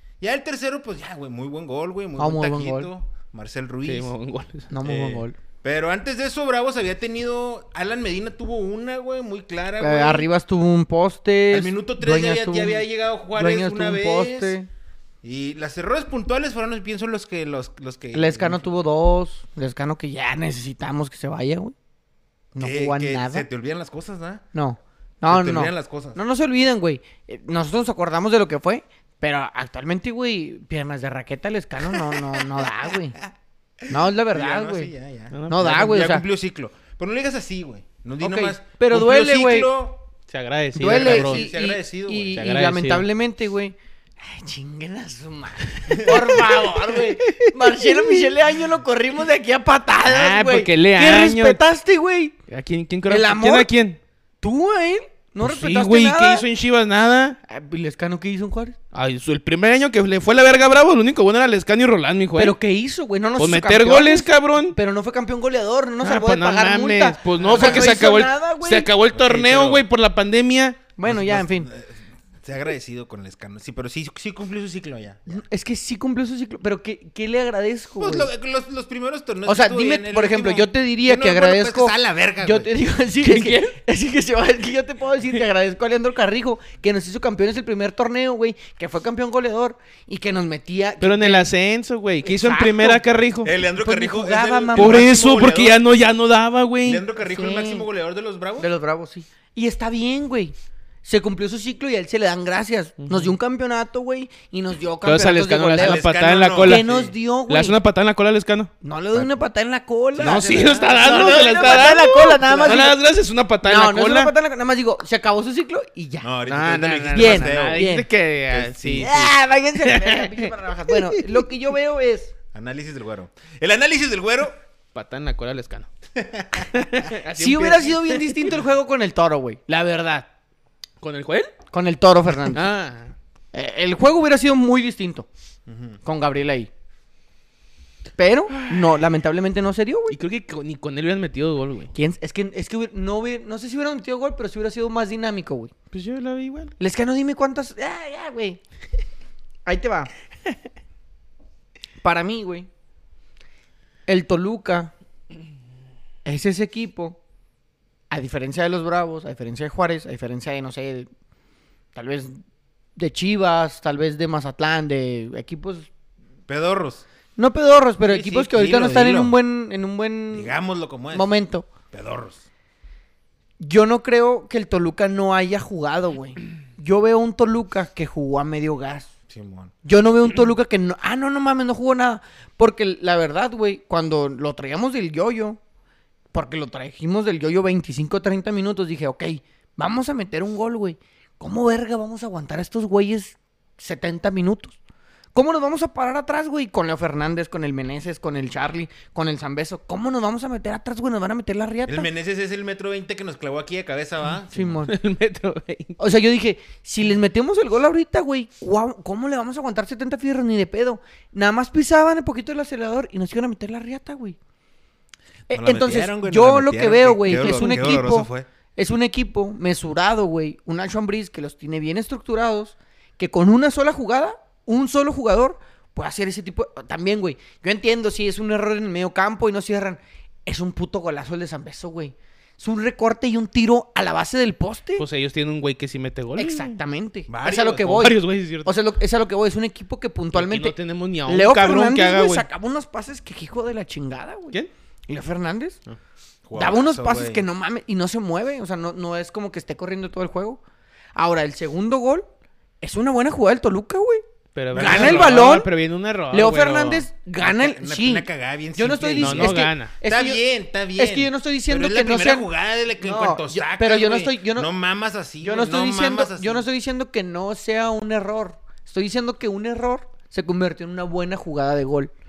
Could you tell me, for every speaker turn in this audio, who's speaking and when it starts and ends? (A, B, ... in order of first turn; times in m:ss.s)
0:00.2-0:04.1 A
0:02.2-0:02.9 B
0:03.8-0:04.7 C
0:04.7-0:05.4 B
0:04.8-0:10.3 A
0:09.8-0:14.7 B
0:11.5-0:14.6 A
0:15.2-0:18.6 A
0:18.1-0:21.7 B
0:22.5-0:23.4 B
0:22.6-0:24.4 A
0:24.5-0:33.2 B
0:25.3-0:26.2 A
0:31.9-0:33.3 A
0:33.8-0:40.0 A
0:33.9-0:34.9 B
0:35.3-0:35.8 C
0:35.5-0:36.2 B
0:38.2-0:39.7 B
0:40.3-0:41.4 C
0:40.8-0:52.3 B
0:40.8-0:42.4 A
0:42.4-0:43.1 C
0:45.9-0:48.3 C
0:45.9-0:46.4 A
0:50.0-0:51.6 C
0:52.5-0:54.0 C
0:53.1-0:53.7 B
0:54.4-0:56.5 B
0:55.4-0:57.4 C
0:57.5-0:58.8 B
0:58.9-1:02.6 C
1:02.4-1:08.9 B
1:03.4-1:04.8 C
1:06.0-1:10.8 C
1:07.4-1:08.0 A
1:09.1-1:09.8 A
1:11.0-1:11.7 B
1:11.0-1:15.4 A
1:15.3-1:18.3 B
1:18.0-1:22.7 A
1:19.5-1:31.5 B
1:23.2-1:23.7 C
1:31.0-1:33.5 C
1:32.2-1:33.0 B
1:33.4-1:35.8 A
1:33.8-1:35.2 B
1:34.8-1:37.0 C
1:36.8-1:38.7 A
1:37.2-1:37.9 B
1:38.6-1:46.0 B
1:43.0-1:43.3 C
1:45.0-1:46.9 C
1:45.8-1:47.1 A
1:46.6-1:47.8 B
1:47.5-1:48.7 C
1:48.8-1:53.0 B
1:50.1-1:52.9 A
1:50.2-1:54.3 C
1:53.6-1:56.3 B
1:56.2-1:57.9 A
1:56.5-2:01.4 C
1:57.1-1:58.1 B
1:58.5-1:59.2 A
1:59.0-2:02.3 B
2:02.5-2:04.6 A
2:04.9-2:05.9 C
2:06.2-2:07.1 A
2:06.6-2:08.5 C
2:07.4-2:10.2 B
2:11.0-2:11.5 C
2:11.7-2:12.7 B
2:12.5-2:13.1 C
2:13.5-2:15.3 B
2:15.7-2:16.0 A
2:16.0-2:16.7 B
2:18.2-2:20.2 B
2:18.5-2:19.0 C
2:20.1-2:21.9 C
2:21.9-2:25.7 B
2:25.9-2:26.7 C
2:26.8-2:28.6 B
2:29.7-2:30.1 B
2:32.0-2:32.7 B
2:34.1-2:34.9 B
2:36.2-2:37.2 B
2:38.1-2:41.1 B
2:42.0-2:42.4 B
2:43.0-2:45.9 B
2:46.5-2:47.1 A
2:47.4-2:50.5 B
2:48.0-2:49.4 A
2:50.3-2:51.3 A
2:51.1-2:51.7 B
2:51.9-2:52.5 A
2:53.6-2:59.1 B
2:59.3-2:59.7 A
2:59.8-3:05.6 B
3:06.3-3:14.8 B
3:15.4-3:22.1 B
3:21.9-3:24.9 A
3:24.5-3:24.9 B
3:24.9-3:26.0 C
3:26.0-3:34.4 B
3:35.5-3:55.0 B
3:35.5-3:38.5 A
3:55.0-3:56.8 C
3:56.4-4:00.8 B
3:57.3-3:58.1 A
3:57.9-3:58.7 C
4:00.3-4:02.5 C
4:01.3-4:05.8 B
4:06.4-4:07.5 A
4:06.6-4:10.6 B
4:11.2-4:12.3 B
4:12.8-4:14.2 B
4:14.6-4:17.1 C
4:14.7-4:15.5 A
4:14.8-4:15.7 B
4:16.3-4:20.4 B
4:17.4-4:26.7 A
4:19.2-4:19.9 C
4:21.0-4:22.5 B
4:23.0-4:24.7 B
4:25.4-4:32.1 B